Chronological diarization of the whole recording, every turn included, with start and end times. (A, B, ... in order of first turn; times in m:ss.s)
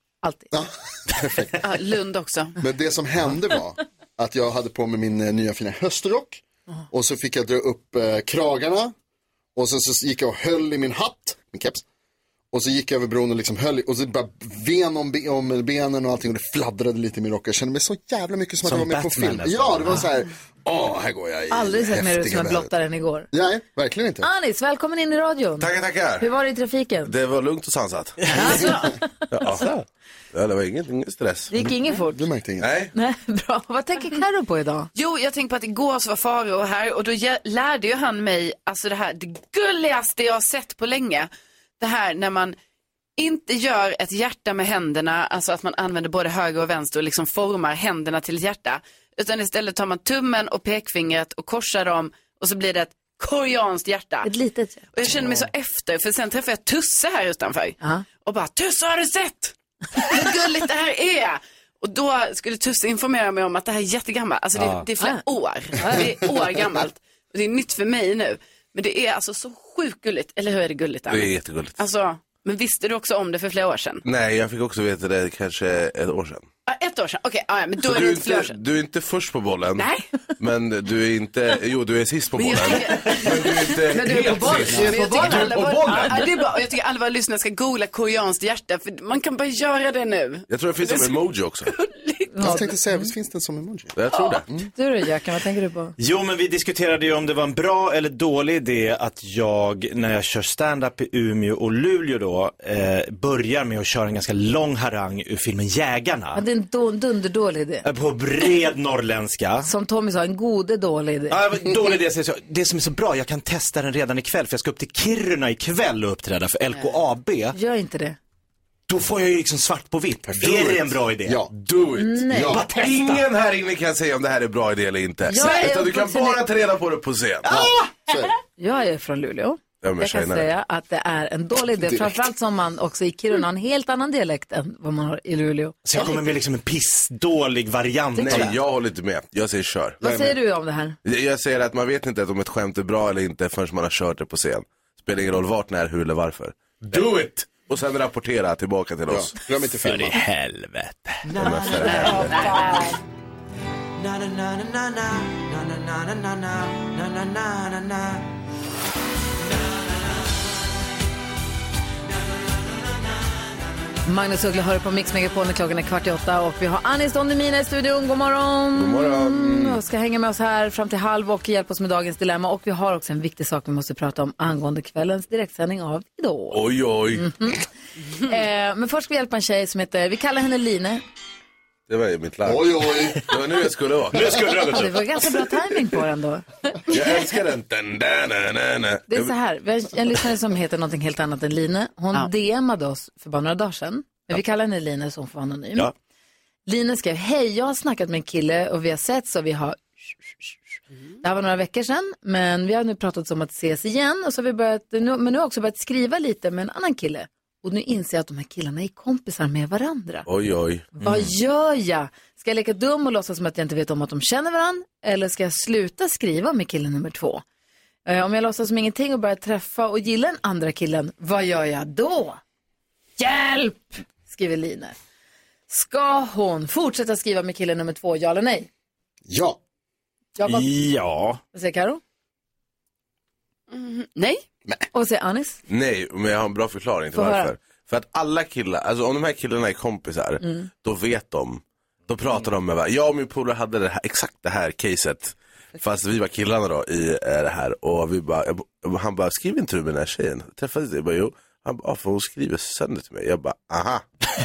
0:00.2-0:00.5 A
0:00.5-0:01.6 B
0:01.6-0:02.6 C
0:02.6-0:08.9 B
0:09.6-0:11.8 B
0:12.5-0:22.7 B
0:18.6-0:20.0 D
0:21.5-0:23.3 A
0:23.3-0:24.3 B
0:24.2-0:27.1 A
0:25.6-0:26.3 E
0:27.1-0:28.2 E
0:28.2-0:28.5 D
0:28.4-0:29.5 A
0:29.3-0:29.8 E
0:30.3-0:31.5 E
0:31.5-0:32.3 A
0:31.6-0:32.7 B
0:32.6-0:32.9 E
0:32.9-0:34.9 A
0:35.0-0:42.6 C
0:43.2-0:54.3 C
0:54.2-0:54.9 A
0:54.9-1:14.0 C
1:05.7-1:06.1 A
1:11.1-1:11.8 E
1:14.0-1:16.5 E
1:16.7-1:18.6 C
1:17.8-1:19.9 E
1:19.8-1:20.1 C
1:20.4-1:26.2 E
1:22.4-1:23.8 C
1:23.9-1:26.0 A
1:24.5-1:32.6 C
1:30.5-1:31.7 E
1:32.3-1:33.1 A
1:32.4-1:34.7 B
1:34.0-1:34.4 E
1:34.7-1:36.0 A
1:36.0-1:46.4 D
1:46.3-1:47.9 A
1:47.8-1:49.7 D
1:49.6-1:51.4 A
1:51.3-1:57.6 D
1:57.5-1:58.2 A
1:58.9-2:01.5 D
2:00.3-2:01.5 B
2:01.6-2:07.5 E
2:02.0-2:02.7 A
2:02.3-2:02.7 B
2:02.4-2:03.3 D
2:05.3-2:06.4 A
2:07.4-2:08.3 B
2:08.6-2:16.0 A
2:09.8-2:10.5 E
2:11.8-2:12.1 B
2:15.8-2:18.6 D
2:18.2-2:20.0 E
2:18.2-2:18.5 A
2:20.0-2:21.0 A
2:20.0-2:20.4 B
2:21.0-2:29.3 E
2:29.1-2:30.2 B
2:29.7-2:31.3 D
2:31.4-2:32.3 E
2:31.8-2:32.9 C
2:32.1-2:32.9 A
2:44.1-2:57.7 A
2:48.7-2:49.8 E
2:56.5-2:57.3 E
2:58.2-3:01.0 A
3:01.9-3:04.6 E
3:02.4-3:03.3 B
3:04.1-3:05.2 D
3:04.7-3:07.0 A
3:06.9-3:09.3 E
3:09.1-3:15.9 A
3:16.7-3:20.6 A
3:21.2-3:30.3 A
3:30.3-3:30.9 E
3:31.0-3:37.4 A
3:31.0-3:31.3 D
3:38.1-3:42.4 A
3:43.2-3:45.0 A
3:45.7-3:48.7 A
3:49.3-3:49.6 B
3:50.4-3:50.7 A
3:50.4-3:51.4 D
3:51.5-3:52.0 A
3:53.7-3:54.4 C
3:54.9-3:55.6 A
3:55.7-4:14.0 E
3:57.1-3:57.5 A